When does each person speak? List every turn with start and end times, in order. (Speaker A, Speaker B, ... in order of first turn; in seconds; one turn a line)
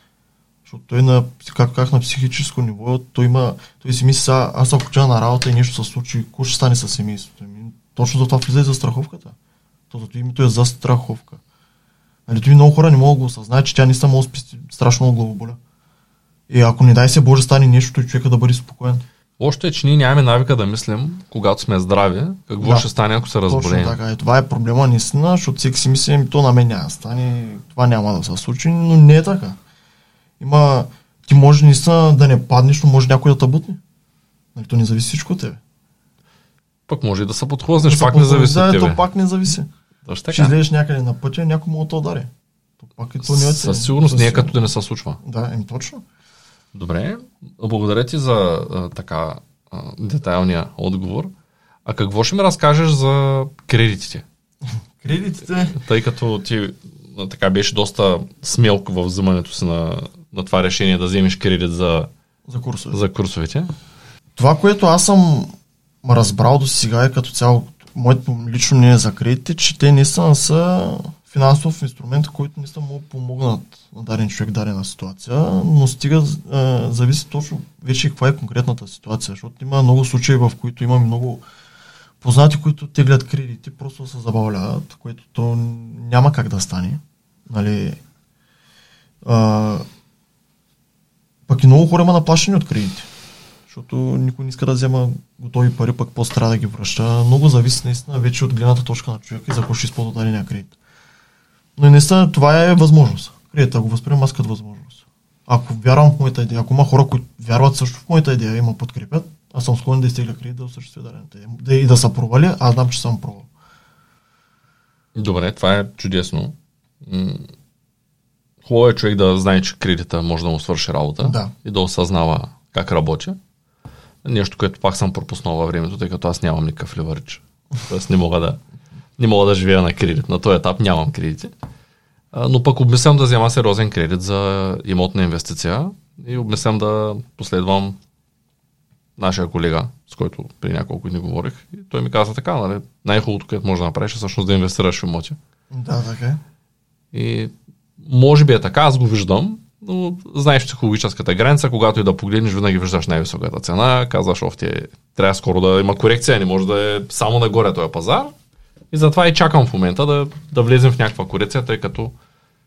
Speaker A: 0.7-9.3
Speaker A: 9.9-11.4
Speaker A: 12.3-15.6
Speaker A: 16.5-19.0
Speaker B: 19.4-24.0
Speaker A: 22.6-22.9
Speaker A: 23.4-29.6
Speaker A: 30.4-33.8
Speaker A: 34.5-35.6
Speaker B: 36.9-39.0
Speaker A: 37.8-39.7
Speaker B: 40.0-40.5
Speaker A: 40.3-44.6
Speaker B: 43.2-45.2
Speaker A: 45.2-46.0
Speaker B: 46.7-51.3
Speaker B: 51.9-54.2
Speaker A: 54.7-55.8
Speaker B: 55.7-62.1
Speaker A: 62.5-63.0
Speaker B: 62.9-63.7
Speaker A: 64.3-65.5
Speaker A: 66.0-81.4
Speaker A: 82.2-88.0
Speaker A: 89.2-89.8
Speaker A: 91.5-93.1
Speaker A: 93.7-100.8
Speaker A: 101.8-113.5
Speaker B: 115.1-117.5
Speaker B: 118.6-123.3
Speaker A: 121.2-121.5
Speaker B: 124.2-128.6
Speaker B: 129.2-131.5
Speaker B: 132.3-138.0
Speaker B: 139.2-145.4
Speaker A: 145.7-146.4
Speaker B: 147.1-158.3
Speaker B: 158.9-162.1